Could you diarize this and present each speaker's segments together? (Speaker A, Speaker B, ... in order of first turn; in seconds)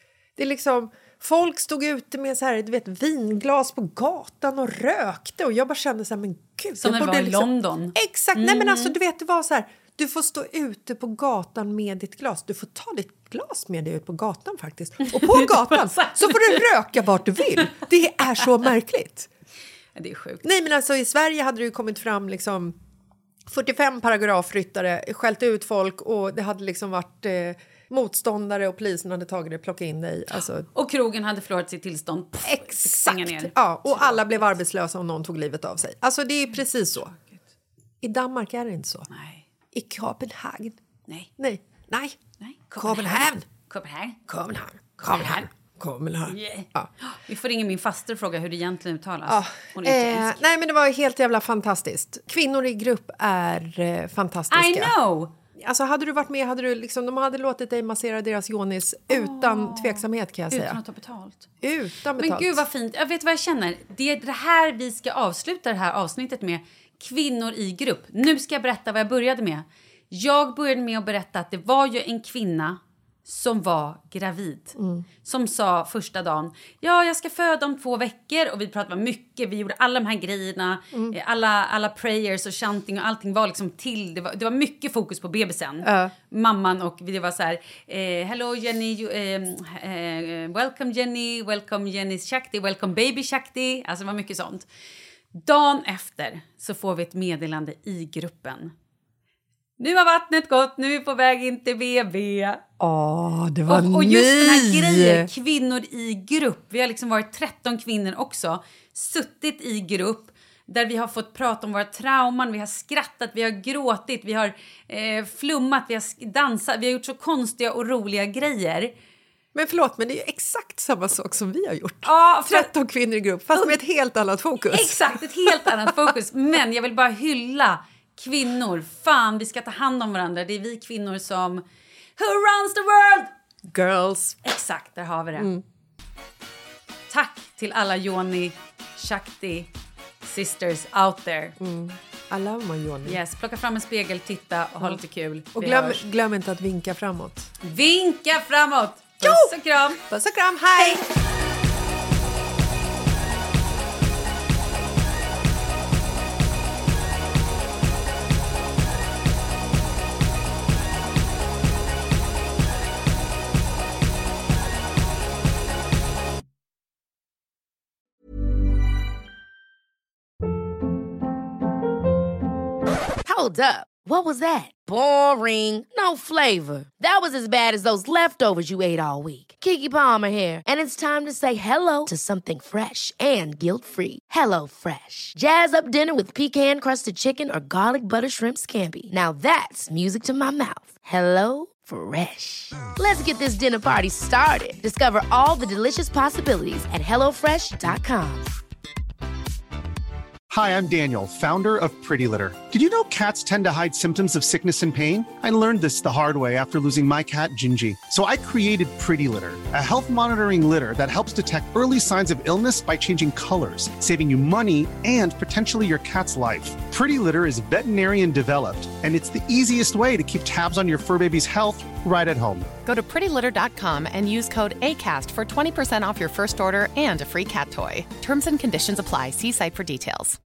Speaker A: 0.3-19.3, 20.4-22.8, 23.5-30.7, 32.4-37.1, 38.0-39.1, 39.7-40.8, 41.4-42.2, 42.8-43.5, 44.3-46.9, 49.2-54.9, 55.5-60.8, 61.6-62.6, 74.8-75.0, 85.8-86.1, 102.8-105.3, 119.5-126.1, 133.7-134.4, 135.3-135.6, 141.6-143.2, 145.5-147.5, 149.2-151.0
Speaker B: 6.8-8.9, 15.0-16.6, 19.9-20.4, 30.7-34.5, 39.1-39.5, 42.4-44.2, 46.3-50.4, 54.5-55.3, 59.1-61.5, 62.2-94.7, 95.3-98.7, 99.8-102.6, 103.7-118.9, 122.0-122.7, 124.7-131.6, 132.2-133.3, 134.4-135.5, 137.1-139.7, 140.2-141.6, 143.0-146.0, 147.6-150.0
Speaker C: 173.2-198.5
Speaker D: 200.5-222.7
Speaker E: 222.8-230.4